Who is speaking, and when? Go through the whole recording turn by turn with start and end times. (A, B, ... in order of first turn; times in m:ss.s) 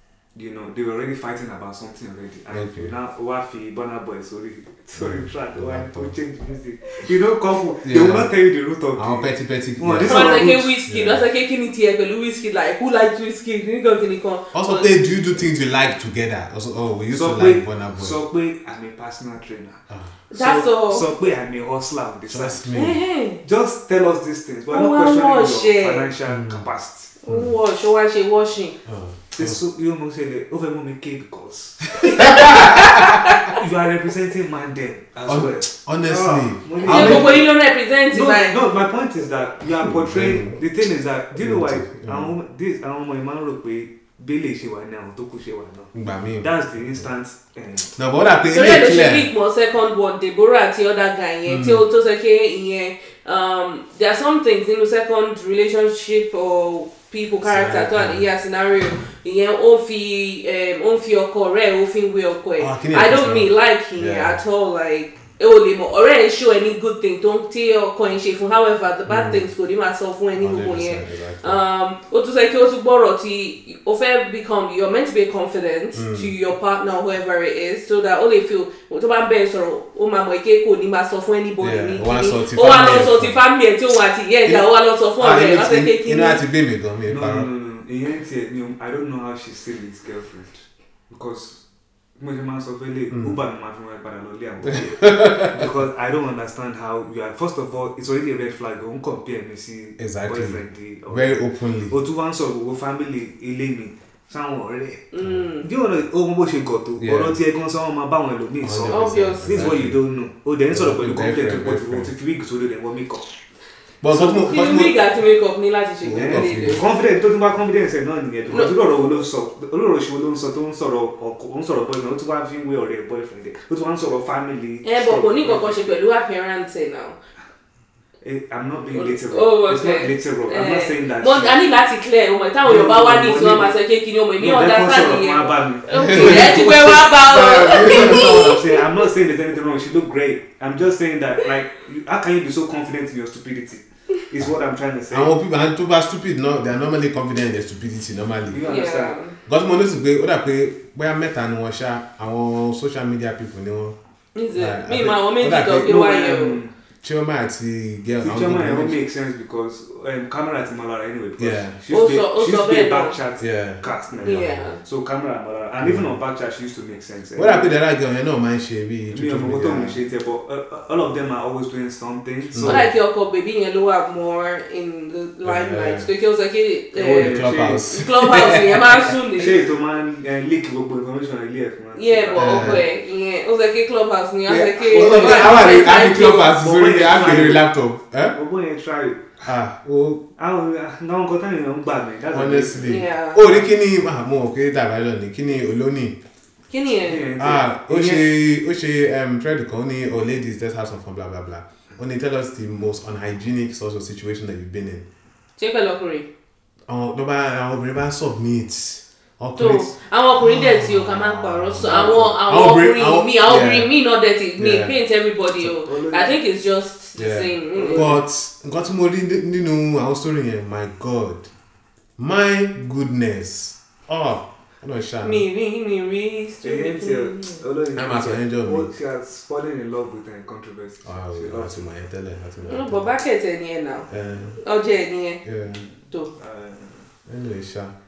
0:00.4-0:10.8 A
0:02.5-0:02.9 B
0:05.0-0:06.2 B
0:07.8-0:08.3 B
0:09.0-0:11.2 B
0:10.0-0:14.9 C
0:14.5-0:18.2 B
0:17.1-0:19.8 A
0:19.9-0:20.2 B
0:20.3-0:21.1 C
0:20.3-0:22.6 A
0:22.3-0:23.0 B
0:22.8-0:23.4 C
0:23.4-0:27.1 A
0:24.7-0:26.1 C
0:26.3-0:26.6 B
0:27.2-0:28.8 C
0:27.3-0:27.6 B
0:28.8-0:29.6 B
0:29.4-0:32.8 A
0:32.2-0:33.4 B
0:32.2-0:33.6 C
0:33.5-0:37.5 A
0:35.3-0:37.4 B
0:36.8-0:38.6 C
0:38.1-0:48.0 A
0:39.8-0:40.6 B
0:41.4-0:42.3 B
0:45.9-0:47.1 B
0:48.0-0:49.3 B
0:48.4-1:26.4 C
0:51.5-0:51.8 B
0:57.4-0:58.3 B
1:02.6-1:04.4 B
1:09.1-1:09.4 B
1:10.4-1:11.6 B
1:16.0-1:16.3 B
1:21.6-1:23.4 B
1:24.4-1:27.5 B
1:27.1-1:31.6 A
1:32.2-1:45.1 A
1:33.1-1:33.4 B
1:34.6-1:35.6 B
1:40.0-1:41.9 B
1:45.1-1:45.7 C
1:45.6-1:53.3 A
1:47.0-1:47.4 B
1:48.6-1:50.0 B
1:48.9-1:49.7 C
1:50.7-1:52.1 B
1:54.0-1:55.0 B
1:54.1-1:56.9 C
1:56.0-1:56.8 B
1:56.1-2:06.0 A
1:58.5-1:58.7 C
2:04.8-2:07.2 C
2:08.2-2:11.6 A
2:08.9-2:18.8 C
2:12.6-2:13.8 A
2:14.4-2:25.4 A
2:15.9-2:18.6 B
2:25.1-2:28.6 B
2:28.5-2:29.2 A
2:28.6-2:29.3 C
2:29.5-2:34.0 B
2:34.4-2:36.6 C
2:34.5-2:35.9 B
2:35.8-2:36.7 A
2:37.0-2:39.0 B
2:38.2-2:47.7 A
2:41.4-2:41.8 B
2:41.9-2:43.2 C
2:43.4-2:44.7 B
2:44.2-2:44.8 C
2:45.8-2:46.1 B
2:47.4-2:50.0 B
2:49.1-2:52.9 A
2:52.5-2:52.9 B
2:52.6-2:59.6 C
2:55.4-2:56.1 B
2:56.9-2:57.9 A
2:57.2-2:59.1 B
2:59.4-3:02.8 A
3:01.9-3:06.5 C
3:02.4-3:02.8 B
3:04.5-3:07.7 A
3:04.9-3:08.4 B
3:08.3-3:09.5 A
3:09.4-3:10.2 B
3:10.4-3:13.0 A
3:12.3-3:16.2 B
3:12.8-3:13.4 C
3:16.7-3:17.2 C
3:16.9-3:18.3 A
3:17.4-3:25.0 B
3:25.6-3:26.3 C
3:26.9-3:29.9 B
3:29.6-3:38.2 C
3:30.4-3:33.9 B
3:34.6-3:35.0 B
3:35.6-3:36.4 A
3:37.2-3:41.5 B
3:37.8-3:38.2 A
3:42.2-3:45.4 B
3:45.2-3:47.6 C
3:46.6-3:51.9 A
3:48.0-3:48.9 B
3:51.0-3:53.1 B
3:52.7-3:55.4 C
3:54.1-3:54.6 B
3:55.4-3:55.8 B
3:56.3-3:57.0 A
3:57.3-3:57.9 B